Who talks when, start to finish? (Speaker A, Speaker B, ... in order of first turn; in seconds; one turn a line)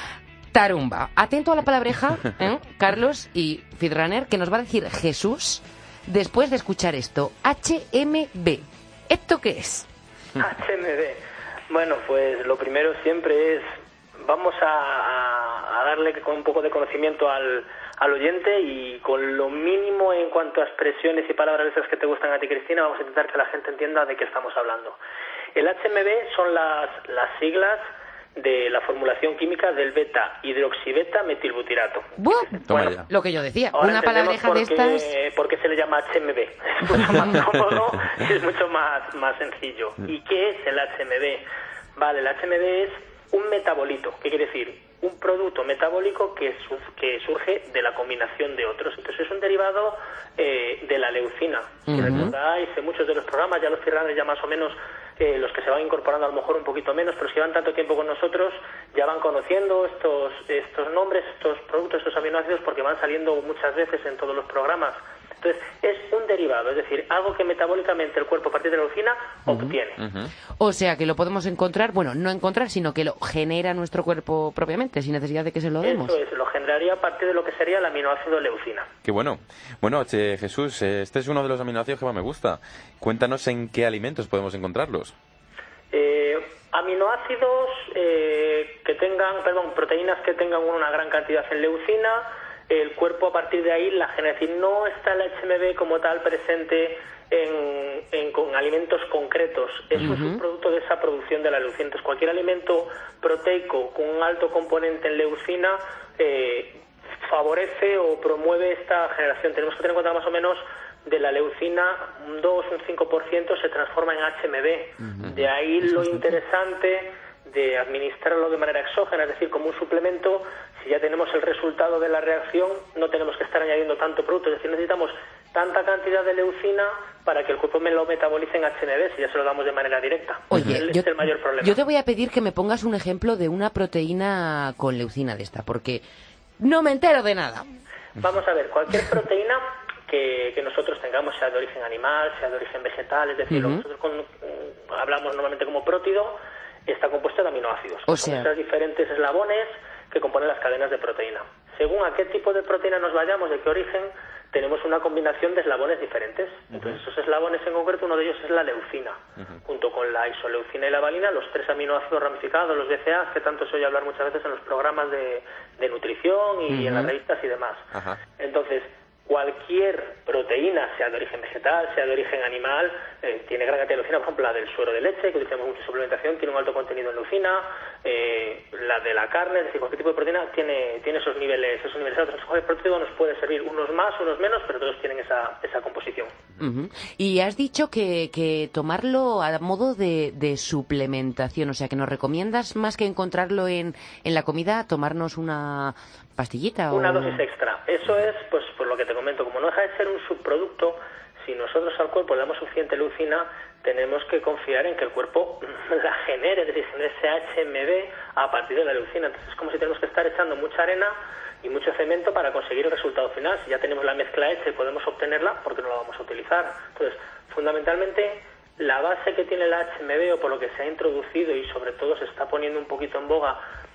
Speaker A: 0.5-9.9
Speaker B: 10.4-13.7
Speaker B: 14.2-25.0
Speaker B: 25.5-27.8
Speaker B: 28.4-32.9
Speaker A: 32.2-35.1
Speaker C: 32.6-33.1
Speaker B: 33.7-41.4
Speaker B: 42.0-70.0
Speaker A: 51.9-52.3
Speaker C: 52.0-52.3
Speaker A: 69.5-69.7
Speaker C: 70.0-70.3
Speaker A: 70.6-76.2
Speaker B: 75.8-78.9
Speaker C: 79.0-85.1
Speaker B: 85.9-131.8
Speaker A: 100.0-100.4
Speaker C: 115.2-115.5
Speaker A: 130.5-136.0
Speaker A: 136.6-137.7
Speaker B: 138.2-167.9
Speaker A: 143.5-143.8
Speaker A: 148.1-148.5
Speaker A: 166.7-167.1
Speaker C: 167.9-168.2
Speaker B: 168.4-186.3
Speaker A: 186.6-197.4
Speaker B: 196.9-223.6